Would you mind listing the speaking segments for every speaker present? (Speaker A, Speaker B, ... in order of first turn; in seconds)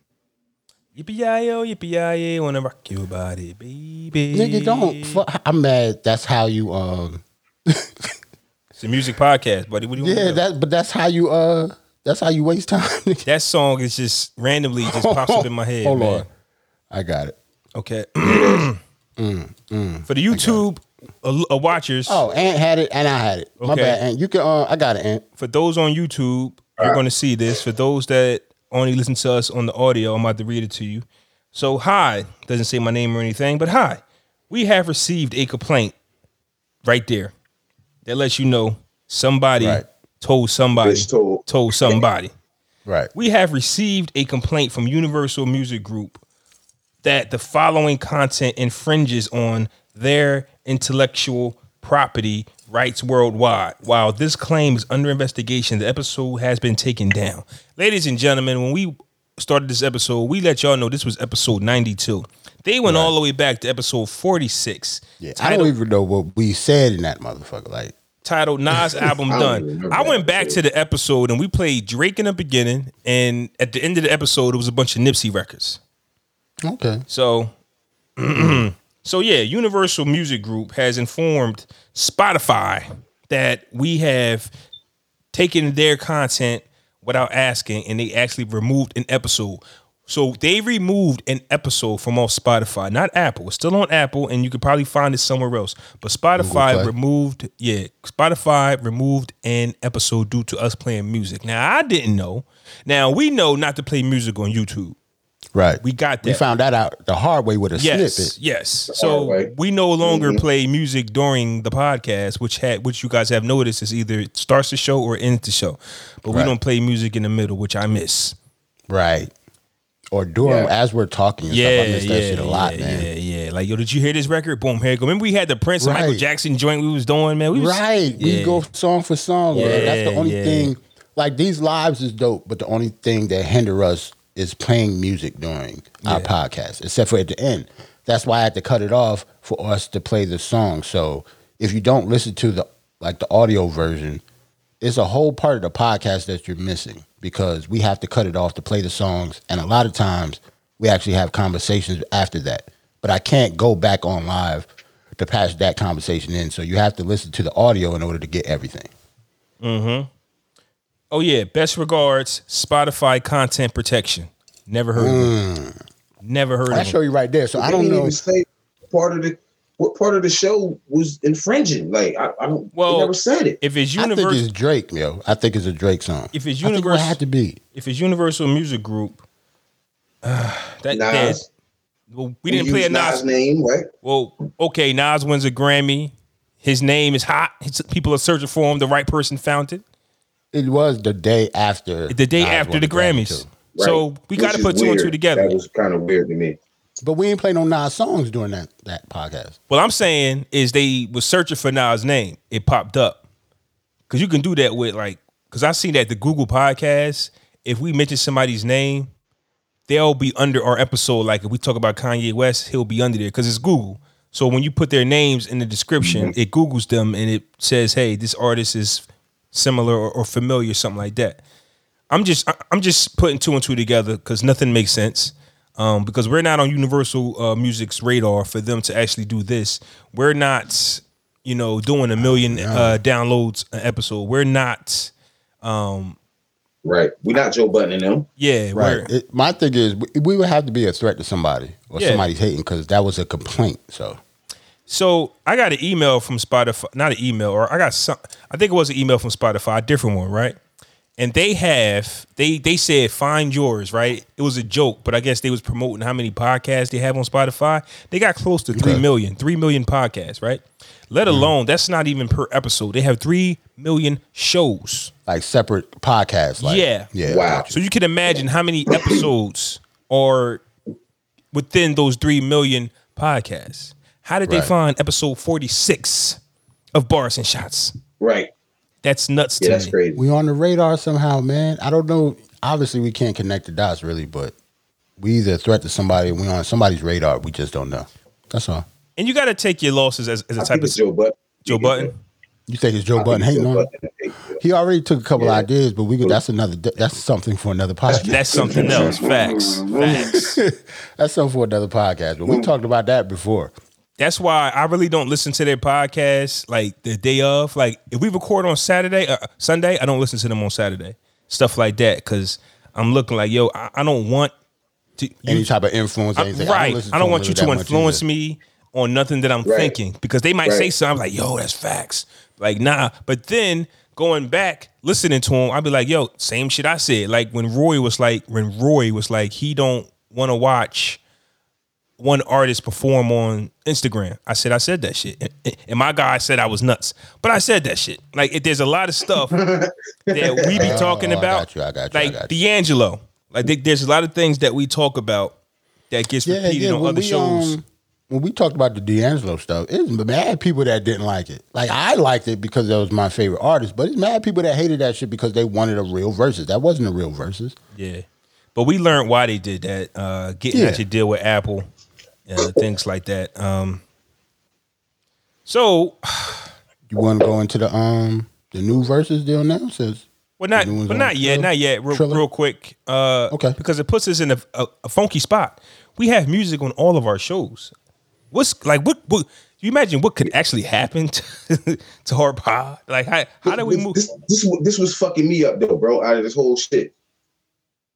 Speaker A: 0.9-5.2, 8.8-10.4, 13.2-16.3, 17.8-18.8, 20.1-22.2, 23.6-24.0, 25.4-35.9, 36.8-37.3, 38.0-42.3, 43.1-46.2, 47.0-65.7, 68.2-75.8, 77.1-77.5, 78.2-84.5, 85.3-105.0, 105.8-106.4, 107.8-118.3, 121.5-128.6, 129.5-130.7, 136.0-136.3, 159.6-160.1, 161.1-165.3, 166.2-166.9, 172.7-174.4, 176.3-177.2, 177.7-179.2, 180.2-181.4, 182.1-183.2, 184.0-189.8, 192.1-195.5, 199.7-203.2, 204.1-209.1, 209.9-221.4, 222.1-235.1, 235.6-236.2, 238.4-239.1, 242.0-242.3, 244.9-250.6, 251.2-265.1, 266.6-267.1, 267.7-270.6, 271.5-276.4, 276.9-277.9, 279.0-279.9, 289.2-291.0, 291.6-292.1, 298.2-300.5, 304.2-314.5, 315.2-315.7, 316.4-331.2, 332.2-339.6, 340.3-345.5, 346.1-347.8, 357.9-361.9, 362.5-364.0, 365.6-366.7, 370.6-377.9, 378.5-384.2
Speaker B: 4.3-8.1, 10.0-13.2, 14.8-16.3, 16.9-17.4, 19.2-20.6, 22.1-25.2, 39.6-39.8, 62.8-63.1, 65.2-67.9, 76.6-77.0, 78.3-78.7, 96.4-96.9, 105.5-108.3, 118.9-119.3, 120.1-123.1, 125.8-126.2, 127.5-144.2, 144.8-158.9, 164.9-165.8, 166.7-168.2, 174.0-177.6, 190.5-193.5, 197.0-199.6, 232.2-233.0, 238.7-244.2, 258.7-259.0, 261.3-261.5, 265.3-267.7, 274.5-274.7, 280.2-284.5, 285.2-288.8, 292.7-293.9, 294.6-299.2, 300.0-303.7, 315.4-318.2, 340.7-342.6, 346.4-357.8, 360.7-361.0, 367.1-372.4, 373.5-373.8
Speaker C: 18.2-18.7, 40.8-42.0, 69.3-70.6, 108.9-109.5, 110.0-110.4, 120.4-120.7, 129.5-129.9, 167.6-173.6, 180.9-181.5, 182.5-183.9, 193.7-196.6, 216.0-216.3, 236.8-238.3, 267.2-267.7, 268.9-269.2, 278.2-278.5, 279.6-280.2, 290.6-292.1, 293.1-294.6, 295.4-295.7, 298.1-300.4, 319.6-319.9, 320.6-320.9, 339.5-340.9, 383.6-387.1